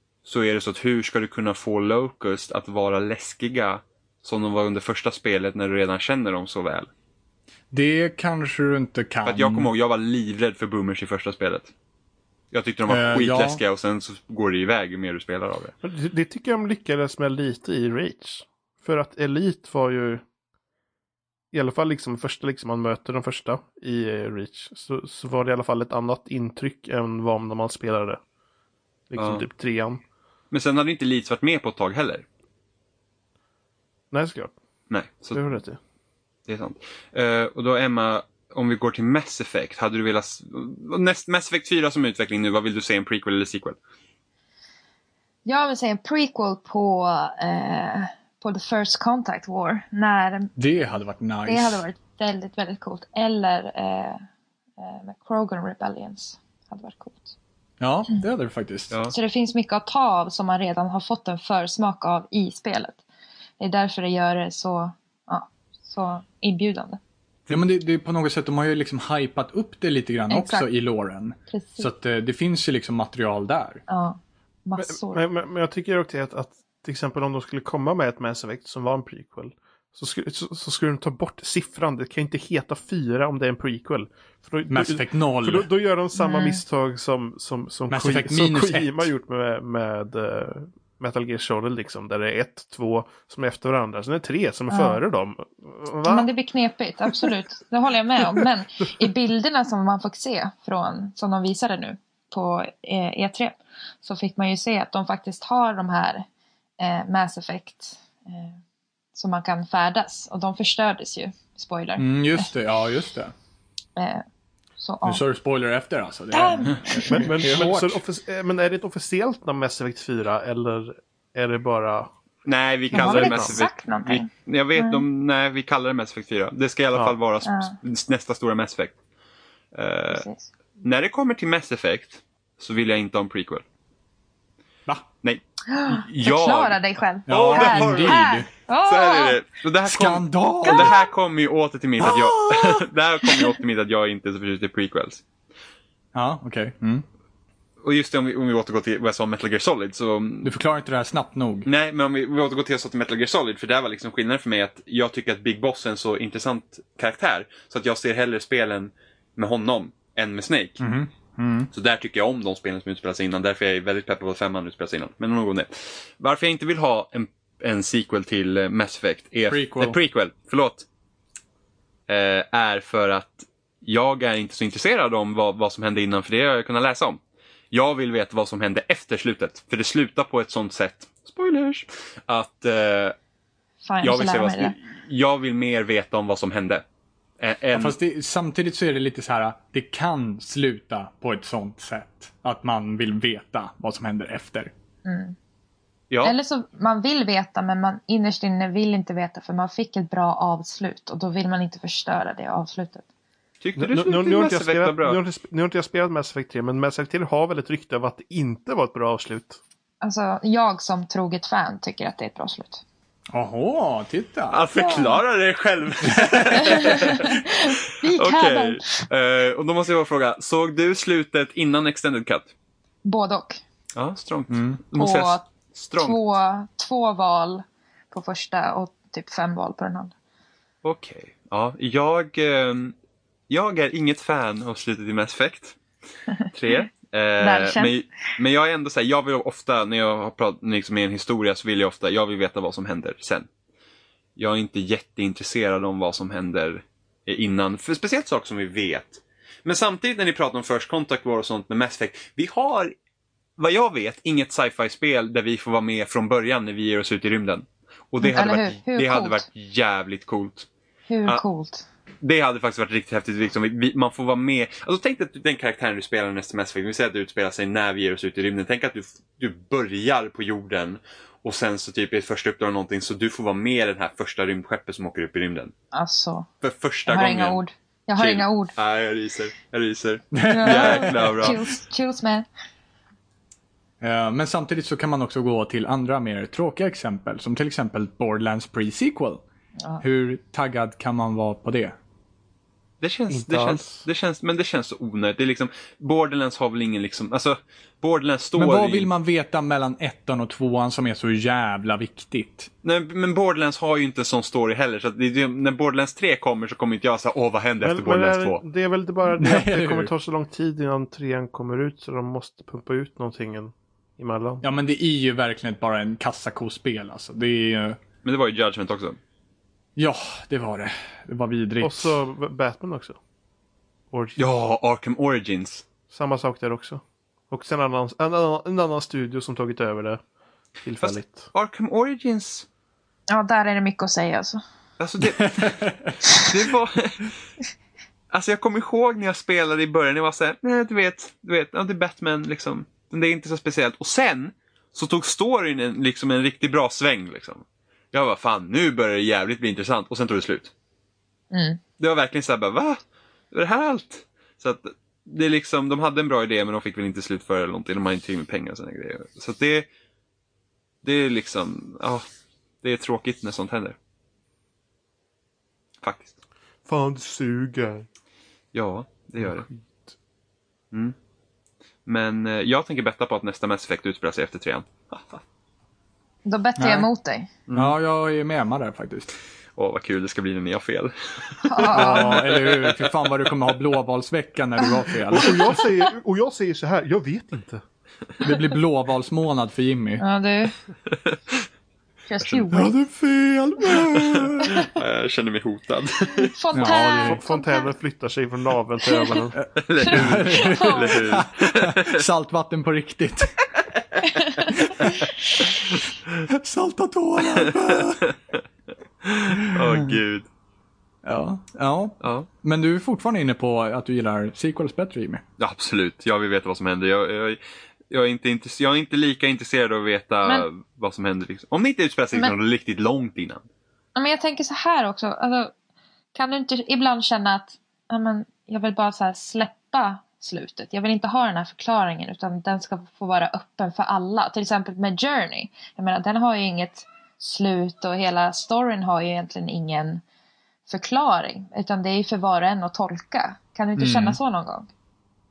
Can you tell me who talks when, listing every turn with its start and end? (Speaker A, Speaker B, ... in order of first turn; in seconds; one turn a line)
Speaker A: 0.2-6.9
Speaker B: 7.7-9.7
Speaker A: 9.2-11.7
Speaker A: 12.5-15.7
Speaker B: 12.9-13.6
Speaker C: 15.8-20.2
Speaker C: 21.5-28.2
Speaker C: 29.1-30.0
Speaker A: 29.2-29.4
Speaker A: 30.5-32.2
Speaker C: 34.1-34.5
Speaker A: 34.9-35.5
Speaker C: 35.3-35.8
Speaker A: 36.5-43.8
Speaker D: 45.5-50.5
Speaker B: 50.6-51.8
Speaker D: 51.5-54.2
Speaker D: 54.8-57.3
Speaker B: 57.8-59.0
Speaker A: 58.9-59.1
Speaker D: 59.1-63.0
Speaker D: 63.6-67.0
Speaker B: 67.5-73.8
Speaker D: 70.3-70.7
Speaker D: 71.5-71.9
Speaker D: 73.9-75.2
Speaker C: 74.8-96.3
Speaker B: 84.7-85.7
Speaker D: 86.2-86.6
Speaker B: 87.9-89.1
Speaker D: 94.7-95.0
Speaker D: 96.1-106.3
Speaker D: 106.8-108.6
Speaker D: 109.1-112.5
Speaker B: 112.0-113.3
Speaker D: 114.0-114.2
Speaker D: 114.8-115.2
Speaker B: 115.0-118.0
Speaker D: 116.3-117.3
Speaker C: 117.1-122.1
Speaker A: 122.5-128.9
Speaker D: 122.9-125.0
Speaker C: 122.9-123.6
Speaker D: 127.4-127.8
Speaker A: 129.7-130.3
Speaker D: 130.1-130.5
Speaker A: 130.8-133.7
Speaker A: 135.2-136.8
Speaker D: 135.7-139.4
Speaker B: 137.3-138.5
Speaker A: 137.3-138.3
Speaker A: 138.8-145.2
Speaker B: 139.9-140.9
Speaker D: 140.7-141.0
Speaker B: 142.0-142.8
Speaker B: 146.1-147.1
Speaker A: 147.8-150.5
Speaker B: 150.4-151.7
Speaker A: 151.7-160.8
Speaker B: 160.8-161.7
Speaker A: 161.7-170.9
Speaker B: 169.5-170.0
Speaker A: 172.1-183.2
Speaker D: 183.8-184.7
Speaker A: 184.0-186.8
Speaker A: 187.4-188.0
Speaker B: 187.7-194.7
Speaker D: 195.1-195.4
Speaker A: 196.1-196.3
Speaker D: 196.2-203.0
Speaker A: 203.6-205.2
Speaker C: 203.8-209.6
Speaker D: 210.0-212.8
Speaker B: 213.3-214.7
Speaker A: 214.5-222.5
Speaker D: 214.8-215.2
Speaker B: 216.2-216.6
Speaker D: 216.6-218.9
Speaker D: 223.1-223.6
Speaker A: 223.9-226.2
Speaker B: 224.5-224.8
Speaker D: 225.0-230.1
Speaker A: 230.8-232.9
Speaker A: 233.5-235.8
Speaker A: 236.5-243.5
Speaker D: 237.4-238.0
Speaker A: 244.4-252.9
Speaker A: 253.6-260.7
Speaker D: 258.2-259.4
Speaker D: 261.1-261.9
Speaker A: 262.2-275.7
Speaker D: 275.9-276.5
Speaker A: 276.6-277.6
Speaker D: 277.1-278.7
Speaker A: 278.2-281.6
Speaker B: 280.3-281.6
Speaker D: 280.5-282.5
Speaker B: 284.0-289.4
Speaker B: 290.0-291.9
Speaker A: 293.0-299.1
Speaker C: 293.3-294.1
Speaker B: 298.6-302.7
Speaker A: 302.8-308.6
Speaker C: 307.8-314.6
Speaker B: 309.4-310.1
Speaker B: 314.6-318.0
Speaker A: 318.2-319.2
Speaker B: 320.0-322.2
Speaker C: 321.8-323.2
Speaker C: 324.1-324.4
Speaker A: 324.4-325.9
Speaker C: 326.1-330.2
Speaker C: 330.8-331.5
Speaker A: 331.0-332.7
Speaker D: 333.3-334.6
Speaker A: 335.0-335.8
Speaker B: 335.3-336.2
Speaker A: 336.3-337.3
Speaker A: 338.3-350.7
Speaker D: 351.5-351.8
Speaker A: 352.0-353.0
Speaker A: 353.5-359.9
Speaker A: 361.0-362.2
Speaker A: 362.8-364.0
Speaker A: 366.0-366.4
Speaker C: 366.9-368.1
Speaker A: 368.7-369.7
Speaker A: 372.1-375.4
Speaker D: 376.4-377.5
Speaker B: 376.8-377.1
Speaker A: 377.7-377.9
Speaker B: 377.7-379.3
Speaker A: 379.8-383.1
Speaker D: 381.6-382.5
Speaker B: 381.9-385.8
Speaker C: 385.3-387.8
Speaker B: 388.4-390.2
Speaker D: 390.2-390.8
Speaker A: 391.1-391.6
Speaker D: 392.3-393.0
Speaker B: 392.7-394.8
Speaker A: 394.1-396.6
Speaker D: 396.5-397.9
Speaker B: 396.7-397.4
Speaker C: 397.2-399.6
Speaker D: 399.1-399.4
Speaker B: 399.5-403.6
Speaker A: 399.8-402.2
Speaker D: 400.1-401.2
Speaker B: 404.7-405.2
Speaker B: 406.4-408.2
Speaker A: 407.6-408.6
Speaker A: 409.2-410.5
Speaker B: 409.6-410.1
Speaker B: 411.2-415.4
Speaker A: 412.2-412.5
Speaker A: 415.6-417.6
Speaker A: 418.1-423.6
Speaker D: 424.1-425.7
Speaker D: 426.4-440.2
Speaker D: 440.9-444.9
Speaker B: 444.0-444.4